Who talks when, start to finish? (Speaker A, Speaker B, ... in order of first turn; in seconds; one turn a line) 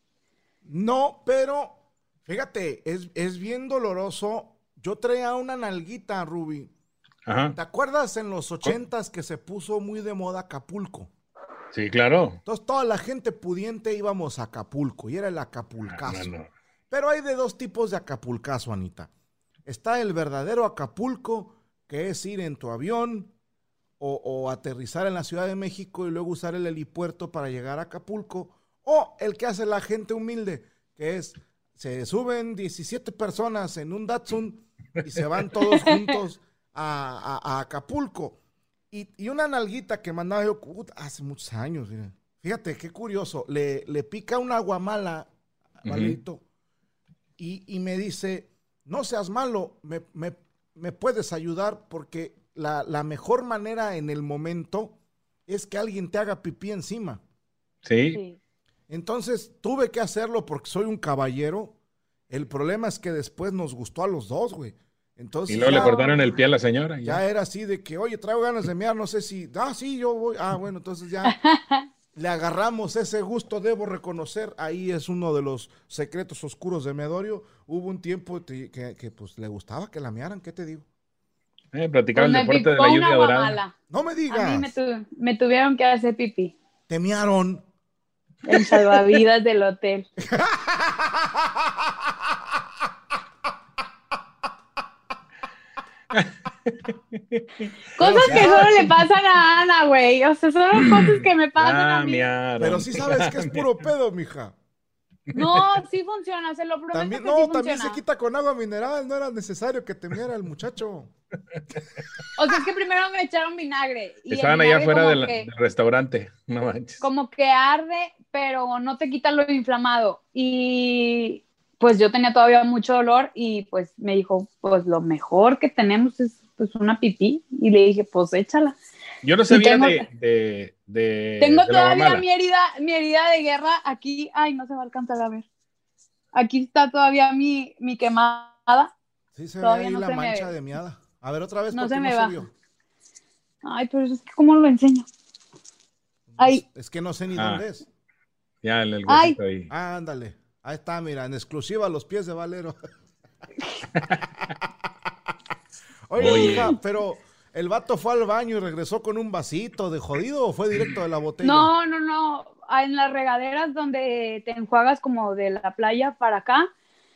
Speaker A: 0.6-6.7
Speaker B: 7.3-7.6
Speaker A: 7.5-11.1
Speaker B: 11.7-12.4
Speaker A: 12.4-16.3
Speaker B: 15.9-16.5
Speaker A: 16.9-19.1
Speaker A: 19.6-23.3
Speaker A: 24.0-38.4
Speaker C: 35.8-36.1
Speaker A: 38.9-46.4
Speaker B: 45.8-46.2
Speaker A: 47.4-55.0
Speaker A: 55.5-57.2
Speaker B: 57.8-58.2
Speaker C: 58.1-58.4
Speaker A: 58.9-61.7
Speaker A: 62.3-66.0
Speaker B: 65.5-67.2
Speaker C: 65.6-66.2
Speaker A: 67.0-71.3
Speaker C: 71.2-71.9
Speaker A: 72.1-80.8
Speaker B: 81.7-83.6
Speaker C: 82.1-83.7
Speaker A: 83.9-84.7
Speaker C: 84.3-86.5
Speaker A: 86.9-87.6
Speaker C: 88.5-90.1
Speaker A: 90.2-92.1
Speaker B: 96.1-98.9
Speaker C: 98.0-102.3
Speaker A: 98.2-98.8
Speaker B: 100.8-103.6
Speaker A: 102.6-104.5
Speaker C: 105.3-108.0
Speaker A: 106.9-111.1
Speaker C: 112.4-115.5
Speaker B: 114.3-117.0
Speaker C: 117.0-128.8
Speaker B: 129.2-132.2
Speaker C: 129.5-130.0
Speaker C: 131.4-135.4
Speaker C: 136.3-138.9
Speaker A: 139.3-142.5
Speaker C: 139.6-140.5
Speaker C: 141.7-142.4
Speaker C: 143.6-145.1
Speaker A: 146.3-147.9
Speaker B: 147.3-147.6
Speaker B: 148.6-149.7
Speaker C: 149.1-149.3
Speaker A: 149.7-152.8
Speaker A: 156.1-161.7
Speaker B: 156.2-156.8
Speaker C: 161.4-166.7